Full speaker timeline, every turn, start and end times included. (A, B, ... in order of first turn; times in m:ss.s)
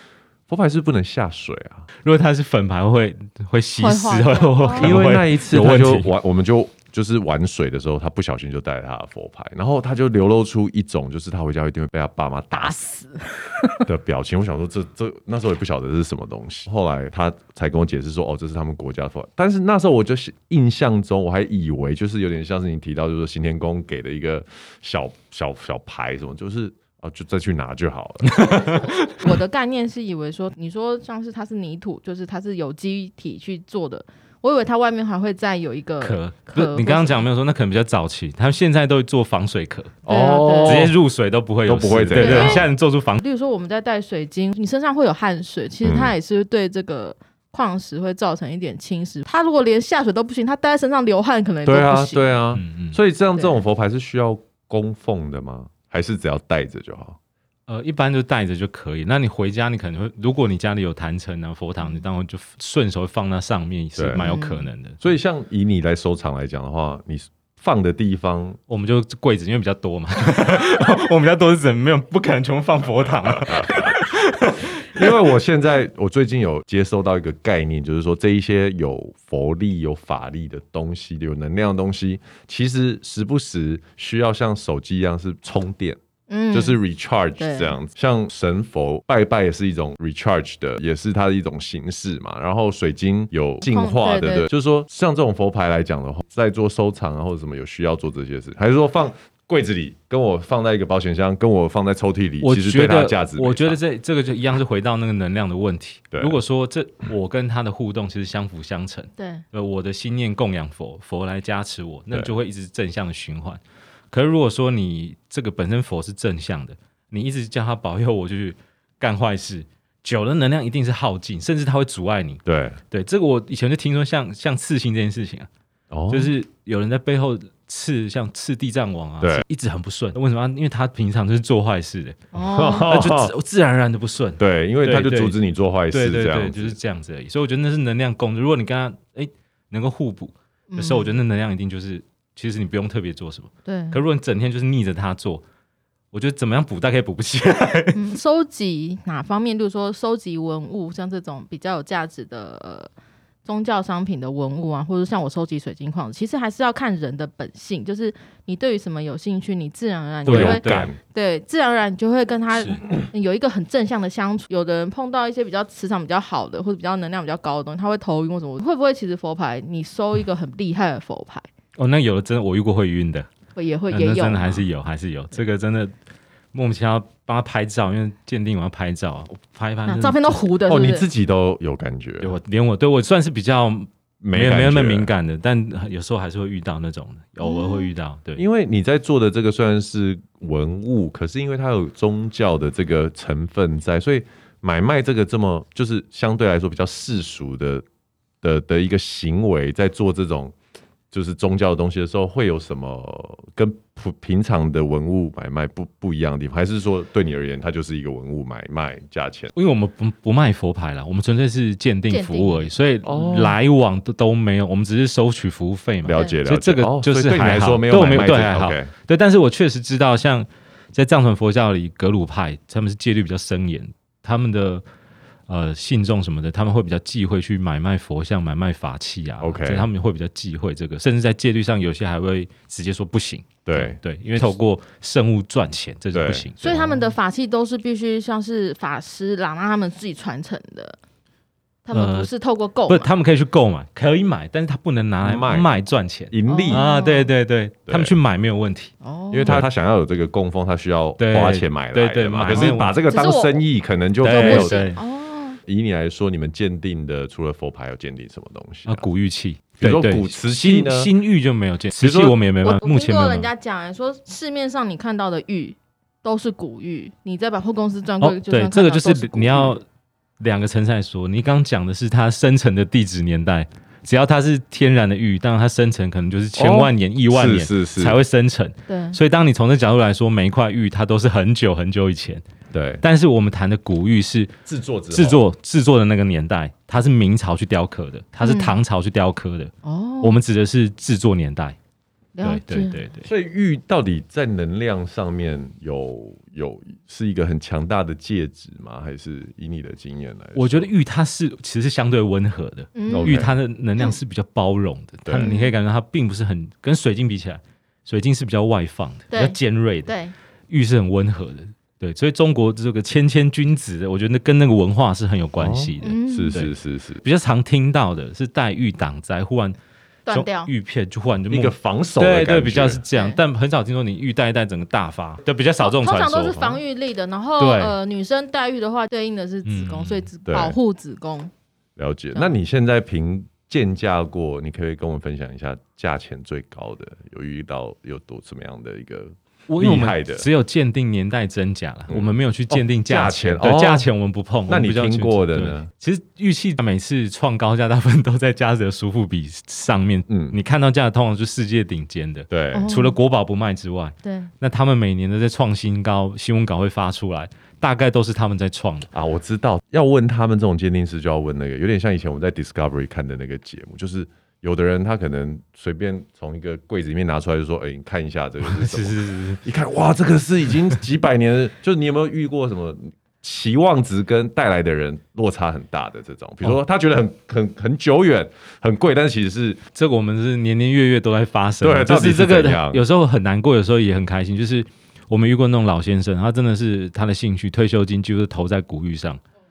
0:00.5-0:01.9 A
0:02.0-0:06.1 B
0:03.8-0:05.0 C
0:04.7-0:12.8 A
0:12.6-0:13.8 C
0:13.8-0:28.5 A
0:28.2-0:29.3 B
0:28.9-0:37.3 C
0:36.0-0:40.0 B
0:40.0-0:41.0 A
0:40.1-0:40.8 C
0:40.6-0:43.2 B
0:41.7-0:42.6 A
0:42.1-0:42.7 C
0:43.2-0:52.3 C
0:45.8-0:46.1 A
0:51.6-0:57.2 A
0:52.5-0:53.0 B
0:57.7-1:05.0 B
1:04.0-1:04.2 A
1:04.2-1:04.7 C
1:05.0-1:08.6 A
1:08.7-1:15.1 B
1:13.5-1:13.9 A
1:14.9-1:26.0 A
1:26.3-1:26.8 C
1:26.5-1:43.8 A
1:27.4-1:27.7 C
1:33.6-1:34.5 C
1:42.4-1:53.6 B
1:46.1-1:46.4 A
1:49.2-1:49.4 C
1:54.1-2:05.5 B
2:02.4-2:02.8 A
2:05.9-2:06.3 A
2:06.1-2:15.4 B
2:12.3-2:12.9 C
2:12.4-2:13.3 A
2:14.4-2:16.8 A
2:15.9-2:25.4 B
2:20.7-2:21.2 C
2:23.6-2:24.0 C
2:26.1-2:28.1 B
2:27.9-2:32.9 C
2:33.4-2:51.5 C
2:40.2-2:40.9 B
2:40.3-2:41.0 A
2:51.8-2:53.3 B
2:53.6-2:54.6 C
2:53.9-2:55.9 B
2:56.5-3:00.4 B
2:59.9-3:01.0 C
3:00.7-3:02.3 A
3:02.2-3:08.4 B
3:04.2-3:05.1 A
3:07.4-3:07.9 C
3:08.4-3:17.8 A
3:18.4-3:20.5 A
3:21.1-3:29.5 A
3:29.6-3:44.8 B
3:32.1-3:32.7 C
3:33.0-3:33.6 A
3:36.0-3:38.9 A
3:45.5-3:56.7 B
3:49.4-3:49.9 A
3:53.6-3:54.0 A
3:56.1-3:56.9 A
3:56.6-4:01.0 C
4:01.8-4:03.1 C
4:01.9-4:02.3 B
4:02.9-4:08.9 B
4:05.2-4:05.7 A
4:06.3-4:06.8 A
4:06.5-4:07.3 C
4:07.9-4:08.1 A
4:09.0-4:09.6 C
4:09.3-4:14.9 A
4:11.2-4:12.9 B
4:12.5-4:13.6 C
4:14.2-4:15.0 B
4:14.2-4:15.6 C
4:15.6-4:19.0 A
4:18.8-4:23.5 B
4:19.8-4:21.1 A
4:22.0-4:22.4 A
4:22.6-4:29.7 C
4:28.2-4:29.8 B
4:30.4-4:42.4 B
4:36.6-4:38.2 A
4:38.9-4:39.2 C
4:42.7-4:43.0 A
4:43.0-4:44.5 B
4:44.6-4:45.4 A
4:45.1-4:51.8 B
4:48.4-4:48.8 C
4:49.8-4:50.4 C
4:52.4-4:53.0 C
4:52.4-4:53.3 B
4:53.2-5:00.9 A
5:00.5-5:10.1 B
5:03.0-5:03.4 C
5:03.1-5:03.5 A
5:05.4-5:05.8 C
5:09.3-5:10.3 C
5:10.7-5:16.7 B
5:15.6-5:17.2 A
5:16.0-5:16.6 C
5:17.2-5:19.8 B
5:20.3-5:20.7 C
5:20.3-5:26.8 B
5:21.5-5:23.0 A
5:23.1-5:23.4 C
5:25.8-5:31.5 C
5:27.6-5:28.0 B
5:29.6-5:30.3 B
5:30.4-5:30.8 A
5:32.0-5:40.4 A
5:39.7-5:59.1 B
5:42.1-5:44.1 A
5:44.7-5:45.9 A
5:50.3-5:50.6 A
5:52.5-5:52.9 A
5:52.7-5:53.2 C
5:54.2-5:54.5 C
5:59.1-6:19.8 A
6:08.6-6:09.6 B
6:19.9-6:29.4 B
6:21.8-6:23.0 A